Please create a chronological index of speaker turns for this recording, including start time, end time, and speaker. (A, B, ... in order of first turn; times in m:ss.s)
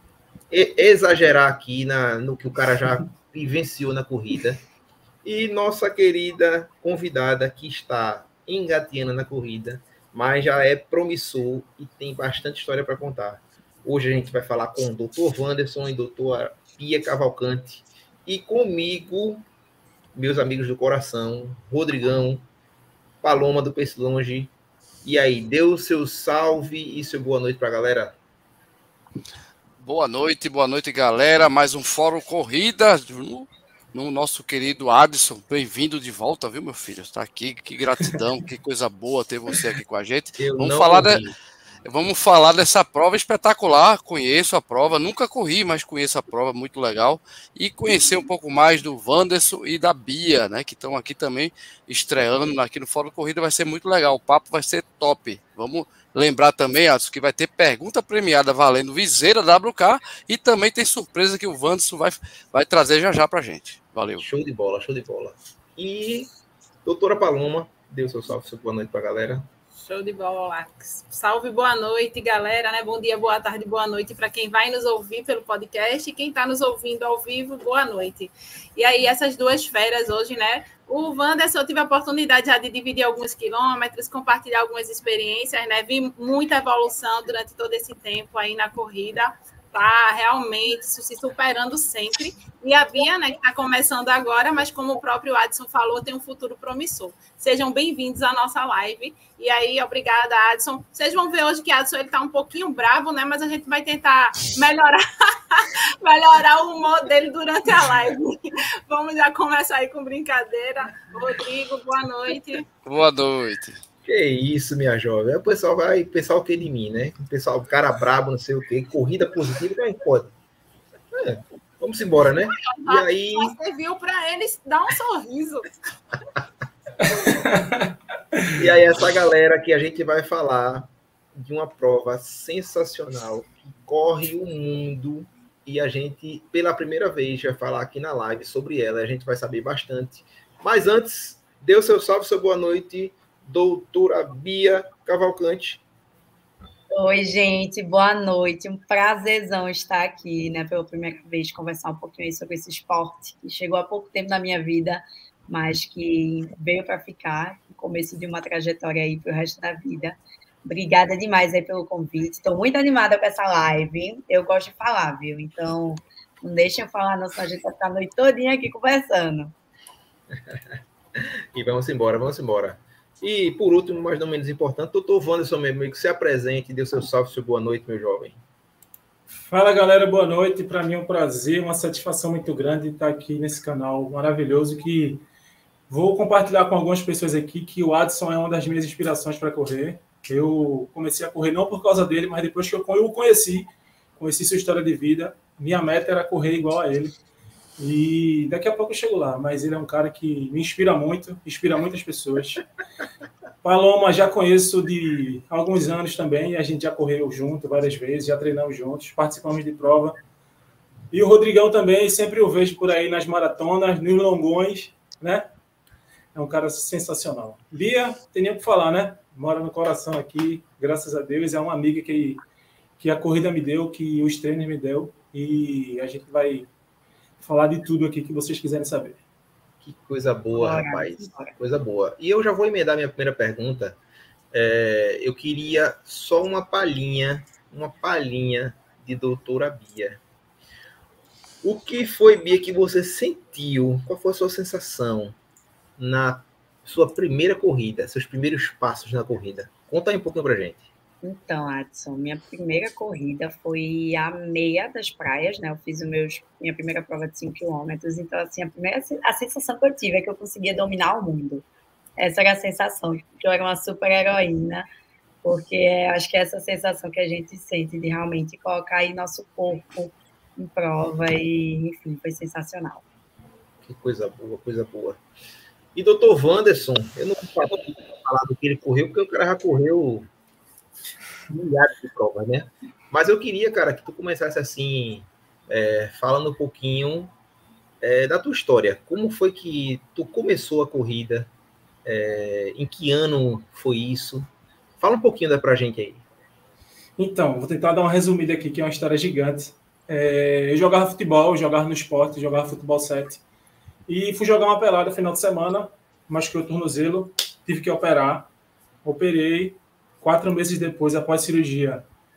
0:00.5-0:04.6 A
0:05.2-0:19.4 A
0:20.1-0:22.4 A
0:23.2-0:24.5 A
0:25.0-0:28.2 A
0:29.8-0:41.3 B
0:40.4-0:41.3 A
0:41.8-1:04.2 B
1:04.2-1:06.3 A
1:06.8-1:09.5 A
1:09.8-1:52.7 C
1:52.8-1:53.8 B
1:54.0-2:00.3 A
2:01.1-2:03.5 A
2:02.6-2:05.7 C
2:07.1-2:08.6 D
2:08.5-2:25.8 A
2:26.9-2:49.5 E
2:50.3-2:58.4 A
2:59.5-3:05.2 D
3:05.9-3:17.2 D
3:17.8-3:22.6 D
3:23.6-3:30.2 D
3:31.1-3:35.5 D
3:36.3-3:42.4 D
3:43.0-3:46.7 D
3:47.4-3:49.2 D
3:49.8-3:54.0 A
3:50.5-3:51.5 E
3:54.5-4:00.2 A
4:01.6-4:05.4 A
4:06.0-4:10.8 A
4:11.2-4:21.6 E
4:22.2-4:24.8 E
4:25.4-4:33.0 E
4:33.8-4:35.2 A
4:35.9-4:40.3 A
4:41.5-4:47.3 A
4:48.0-4:51.5 A
4:52.0-4:54.5 A
4:55.0-4:56.2 A
4:57.2-5:03.4 D
5:04.1-5:08.5 D
5:09.0-5:12.0 D